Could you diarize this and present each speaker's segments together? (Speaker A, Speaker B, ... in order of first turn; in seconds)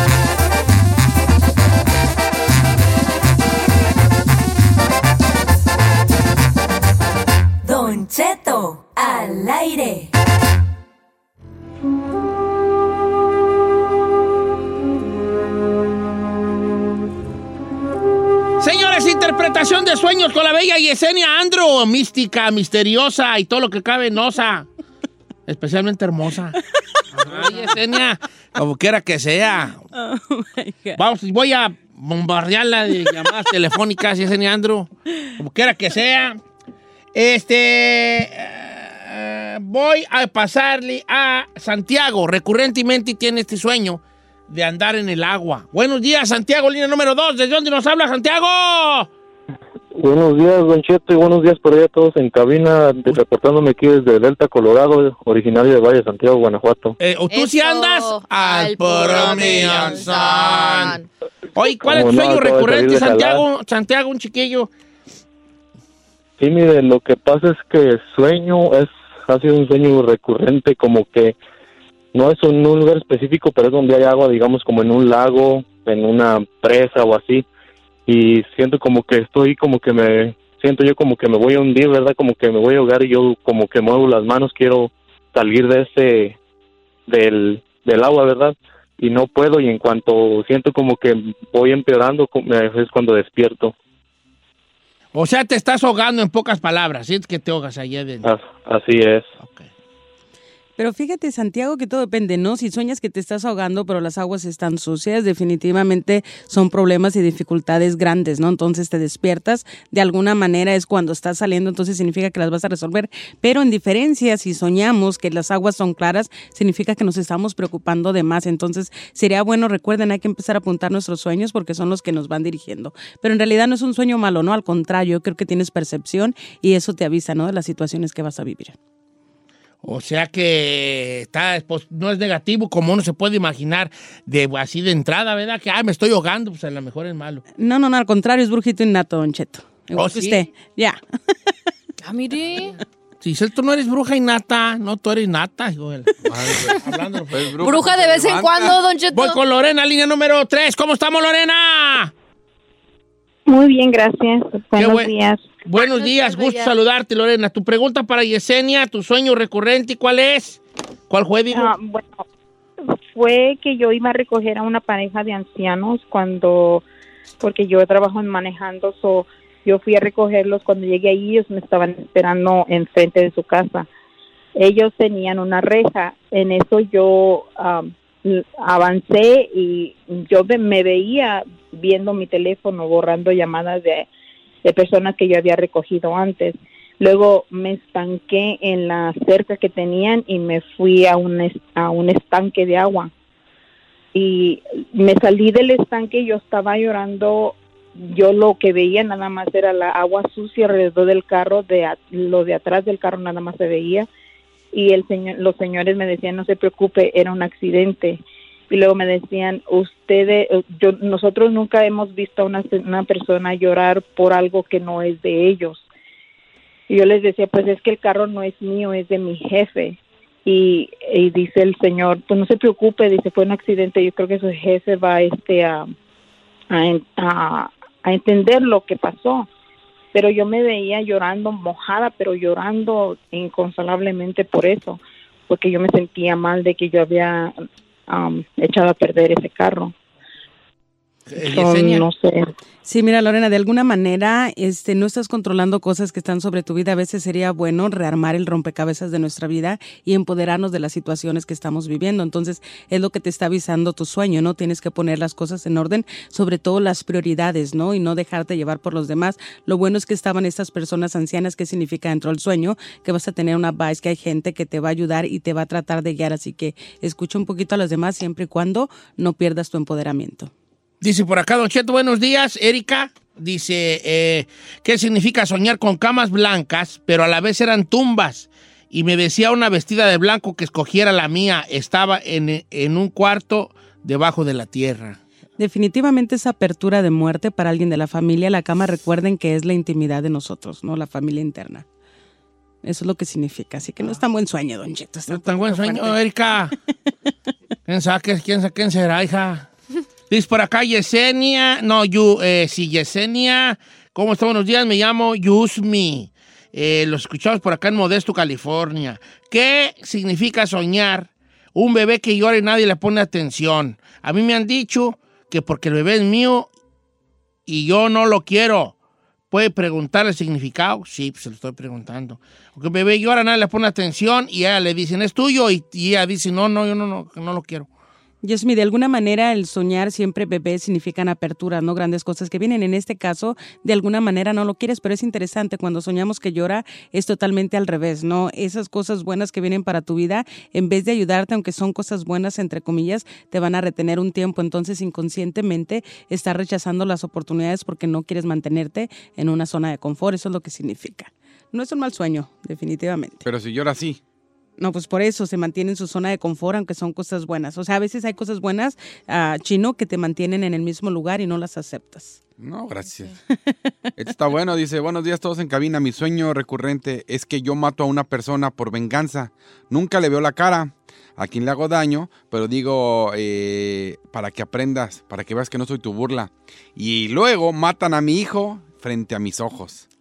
Speaker A: 7.6-10.1
Speaker B: 18.6-24.7, 25.5-26.6, 27.1-29.8, 31.0-36.4, 37.1-49.1, 57.0-61.0, 61.6-64.7, 95.1-98.3, 99.4-99.7, 129.8-137.4, 139.9-140.5, 143.2-147.6, 149.1-152.1, 154.8-155.1, 155.7-161.8, 241.3-242.1, 271.0-285.2, 295.3-296.7, 297.9-299.7, 300.3-316.7, 317.7-318.9, 319.5-327.9
Speaker C: 29.9-31.0, 100.8-128.8, 137.6-141.0, 242.8-270.5, 285.6-291.9, 292.8-296.2, 328.4-353.4, 354.8-362.4
Speaker D: 50.0-57.0, 61.8-63.5, 66.4-71.4, 72.1-77.5, 78.1-86.4, 87.1-93.7, 98.2-99.3
Speaker E: 57.3-61.1, 142.0-142.8, 147.6-149.4, 155.8-156.7
Speaker F: 59.1-60.9, 146.3-146.8, 147.3-148.8, 353.4-354.2, 362.6-363.3, 364.2-380.1
Speaker G: 153.5-155.6, 161.5-162.2, 163.1-166.8, 167.4-173.9, 174.6-184.1, 184.6-193.1, 194.1-204.1, 204.7-215.8, 216.9-225.9, 226.7-229.5, 230.1-237.6, 238.1-239.9, 241.5-242.5